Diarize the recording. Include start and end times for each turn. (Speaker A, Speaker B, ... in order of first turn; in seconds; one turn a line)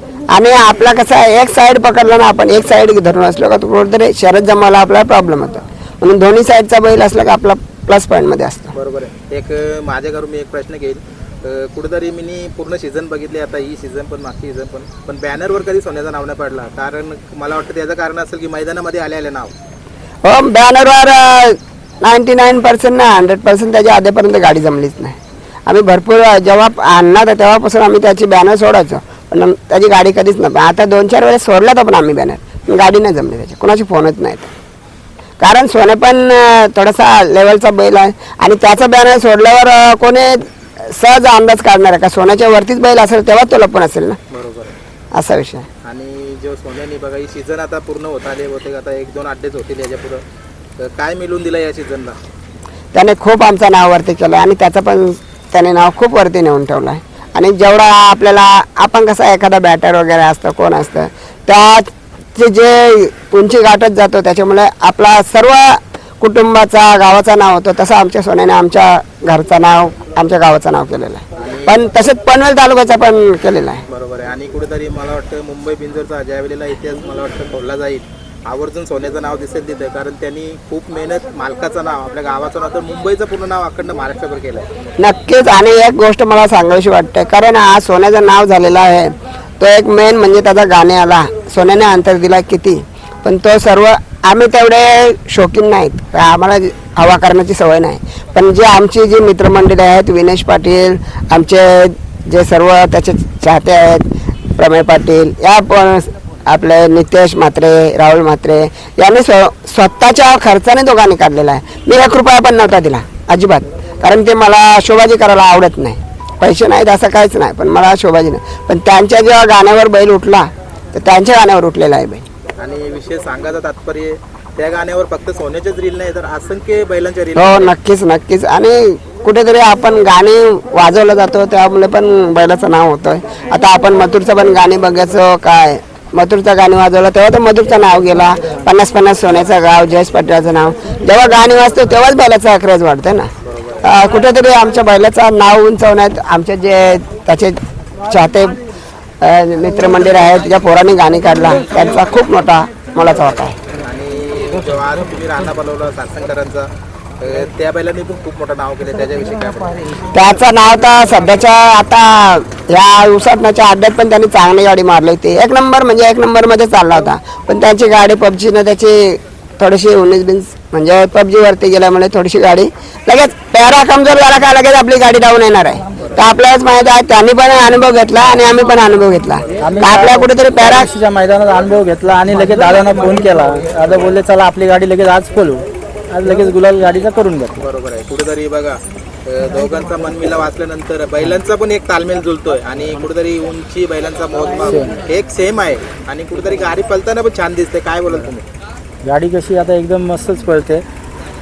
Speaker A: 0.3-8.7
Speaker B: 8.8-19.5
Speaker A: 20.2-34.5
Speaker A: 35.4-44.2
Speaker B: 44.3-44.7
Speaker A: 45.1-45.7
Speaker B: 45.9-50.2
Speaker B: 50.8-52.2
Speaker A: 52.9-73.8
Speaker B: 71.4-71.8
Speaker B: 73.9-84.7
Speaker A: 85.0-122.2
Speaker B: 122.6-127.7
Speaker A: 127.4-143.3
Speaker B: 143.4-143.9
Speaker A: 143.8-148.6
Speaker A: 149.2-153.6
Speaker B: 153.8-156.7
Speaker B: 157.2-160.0
Speaker A: 160.1-180.9
Speaker B: 179.4-180.0
Speaker C: 179.6-187.6
Speaker B: 187.6-198.4
Speaker C: 194.6-195.0
Speaker C: 199.0-200.8